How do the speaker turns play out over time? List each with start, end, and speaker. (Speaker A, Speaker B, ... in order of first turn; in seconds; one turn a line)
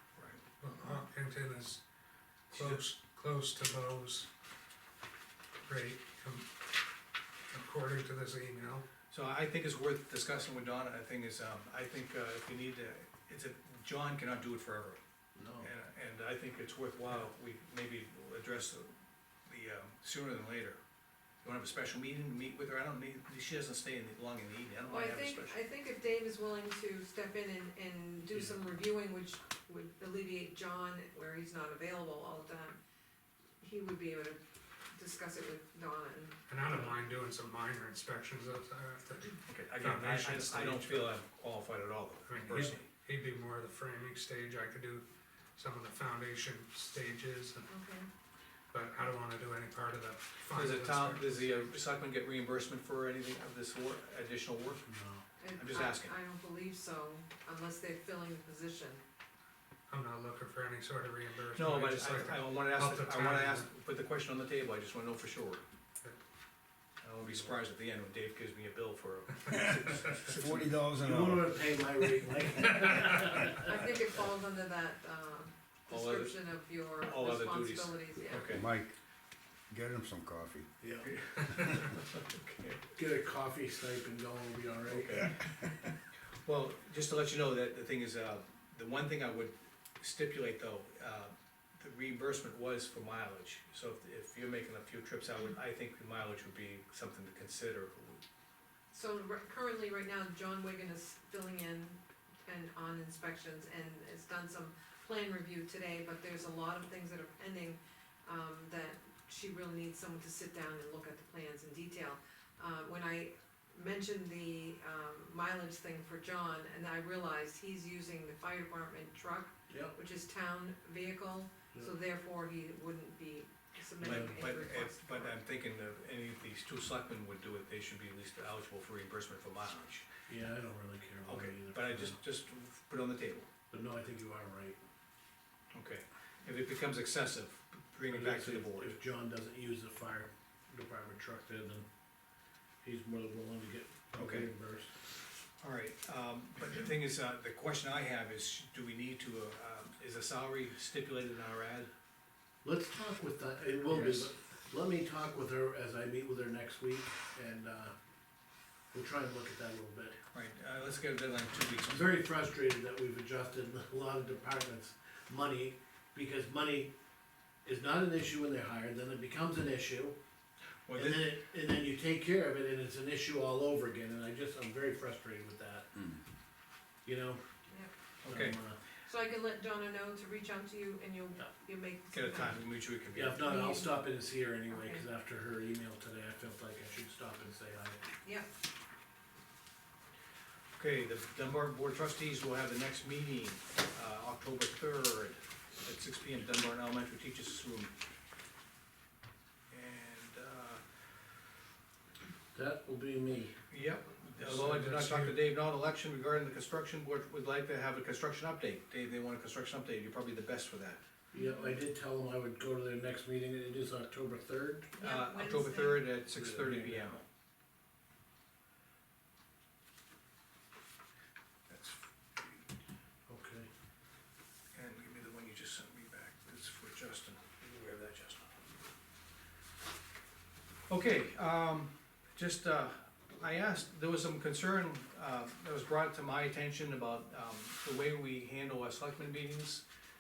Speaker A: 0.2-0.4
Speaker B: 0.6-1.8
Speaker B: 2.5-4.3
Speaker A: 2.5-2.8
Speaker B: 5.7-6.5
Speaker B: 7.5-8.9
Speaker A: 9.1-15.0
Speaker C: 15.4-15.7
Speaker A: 15.6-18.9
Speaker A: 19.5-20.8
Speaker A: 21.4-25.6
Speaker D: 24.9-32.8
Speaker D: 33.6-34.4
Speaker D: 34.9-36.4
Speaker B: 36.5-41.1
Speaker A: 39.5-42.9
Speaker B: 42.3-47.7
Speaker D: 47.7-48.1
Speaker B: 48.7-51.7
Speaker A: 50.5-54.9
Speaker C: 54.9-55.2
Speaker D: 55.4-59.0
Speaker A: 55.6-56.1
Speaker B: 59.9-63.7
Speaker A: 61.5-65.6
Speaker A: 67.0-70.7
Speaker B: 67.2-67.5
Speaker E: 69.5-71.7
Speaker C: 71.0-73.8
Speaker D: 73.5-78.5
Speaker A: 75.9-78.7
Speaker E: 78.5-78.9
Speaker E: 79.7-80.7
Speaker C: 80.8-81.1
Speaker A: 81.0-82.8
Speaker C: 83.0-85.3
Speaker A: 84.9-85.6
Speaker E: 85.4-85.8
Speaker A: 86.5-98.2
Speaker D: 98.9-125.4
Speaker C: 119.7-120.0
Speaker A: 124.0-130.1
Speaker C: 124.0-124.4
Speaker C: 130.3-132.2
Speaker A: 131.2-133.5
Speaker C: 133.7-134.8
Speaker A: 135.7-139.0
Speaker C: 138.1-141.9
Speaker C: 142.8-144.9
Speaker A: 144.2-144.5
Speaker A: 145.6-151.9
Speaker C: 152.6-157.9
Speaker A: 153.9-154.3
Speaker C: 158.9-160.2
Speaker A: 160.3-162.2
Speaker C: 161.8-166.9
Speaker C: 167.7-170.2
Speaker A: 170.9-171.2
Speaker C: 170.9-176.1
Speaker C: 177.1-177.4
Speaker C: 178.2-178.8
Speaker A: 178.3-178.6
Speaker D: 179.0-182.6
Speaker A: 182.1-183.4
Speaker C: 183.1-188.0
Speaker D: 183.3-184.0
Speaker D: 184.7-185.0
Speaker A: 190.8-197.9
Speaker A: 199.7-200.8
Speaker C: 202.5-203.6
Speaker A: 203.7-211.0
Speaker C: 204.4-205.3
Speaker B: 204.6-205.0
Speaker C: 211.3-214.9
Speaker D: 211.3-211.8
Speaker D: 215.0-216.1
Speaker A: 215.0-217.2
Speaker C: 216.3-217.2
Speaker A: 221.7-222.7
Speaker C: 223.3-223.7
Speaker A: 224.7-228.6
Speaker A: 230.9-239.8